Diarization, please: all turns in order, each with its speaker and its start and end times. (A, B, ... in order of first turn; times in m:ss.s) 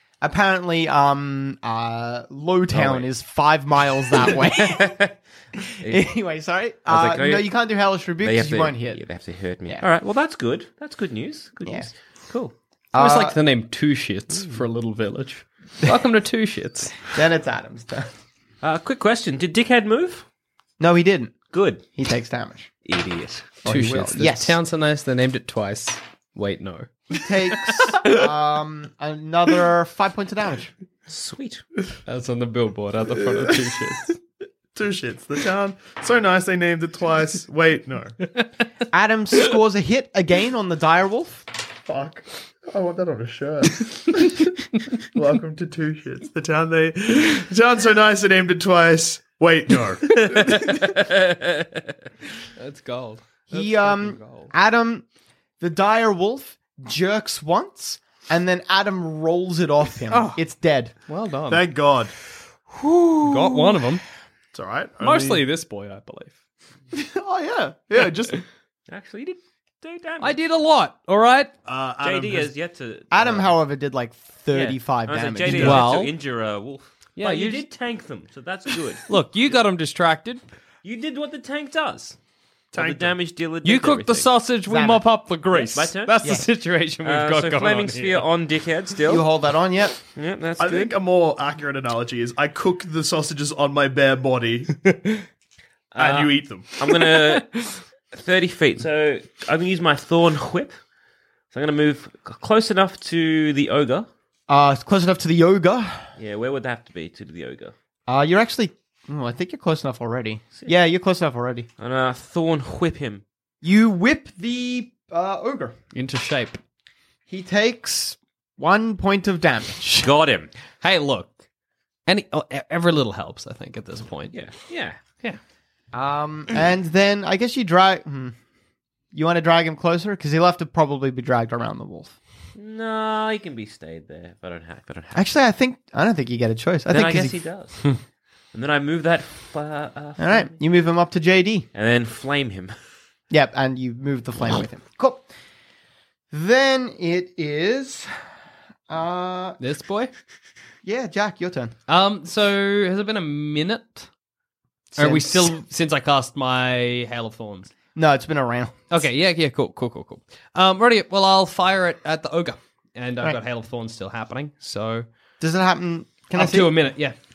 0:00.2-0:05.0 A
0:02.7-0:03.1 B
0:04.2-0:05.1 B
0:05.8-0:06.2 B
0:05.8-0:09.0 A
0:06.9-0:07.6 B
0:08.2-0:12.5 B
0:12.9-0:13.4 A
0:13.0-0:17.0 C
0:17.1-0:18.1 A
0:18.6-0:20.2 B
0:20.8-0:21.4 A
0:21.5-0:21.8 B
0:22.0-0:22.7 A
0:22.8-0:23.6 B
0:23.6-0:24.6 A
0:23.6-0:26.9 C
0:27.1-0:30.7 A
0:27.5-0:28.2 C
0:31.1-0:31.6 B
0:32.1-0:34.2 C
0:34.7-0:38.2 D
0:38.9-0:41.5 A
0:41.9-0:50.7 D
0:50.3-0:51.6 B
0:52.6-0:54.5 C
0:53.5-0:55.1 A
0:55.6-1:00.9 A
1:00.1-1:00.4 C
1:01.1-1:01.6 C
1:01.5-1:02.1 D
1:03.2-1:04.0 C
1:04.5-1:05.4 D
1:05.0-1:06.4 C
1:06.9-1:08.4 D
1:08.9-1:10.4 B
1:10.2-1:11.5 C
1:11.6-1:12.5 D
1:12.0-1:13.5 B
1:13.1-1:15.8 A
1:14.5-1:19.1 B
1:15.4-1:15.8 D
1:15.6-1:16.1 C
1:17.2-1:17.7 C
1:19.1-1:20.4 C
1:20.8-1:22.2 B
1:22.7-1:24.3 B
1:22.7-1:23.2 D
1:23.6-1:28.3 C
1:24.7-1:25.1 A
1:25.5-1:26.4 B
1:27.0-1:29.3 B
1:29.0-1:30.0 A
1:30.2-1:31.0 B
1:30.6-1:34.7 D
1:34.9-1:35.2 C
1:35.9-1:40.8 B
1:36.0-1:36.7 D
1:41.5-1:44.1 B
1:44.5-1:46.0 A
1:46.2-1:47.7 B
1:48.1-1:51.7 A
1:51.8-1:53.2 B
1:53.6-1:55.8 A
1:55.9-1:56.6 C
1:57.3-2:00.1 A
2:00.0-2:00.5 B
2:00.8-2:01.4 C
2:02.1-2:04.4 C
2:04.3-2:05.0 B
2:05.9-2:08.4 A
2:09.1-2:12.1 A
2:12.6-2:15.3 B
2:15.1-2:17.4 A
2:16.9-2:17.8 B
2:18.5-2:20.6 B
2:20.2-2:21.7 A
2:21.7-2:22.8 B
2:23.3-2:25.3 A
2:26.3-2:28.1 A
2:28.9-2:29.6 A
2:29.6-2:30.1 C
2:30.8-2:31.8 A
2:31.9-2:34.1 C
2:34.9-2:35.5 A
2:35.0-2:37.7 C
2:38.0-2:38.8 A
2:38.9-2:45.1 C
2:45.4-2:46.8 A
2:46.3-2:47.2 C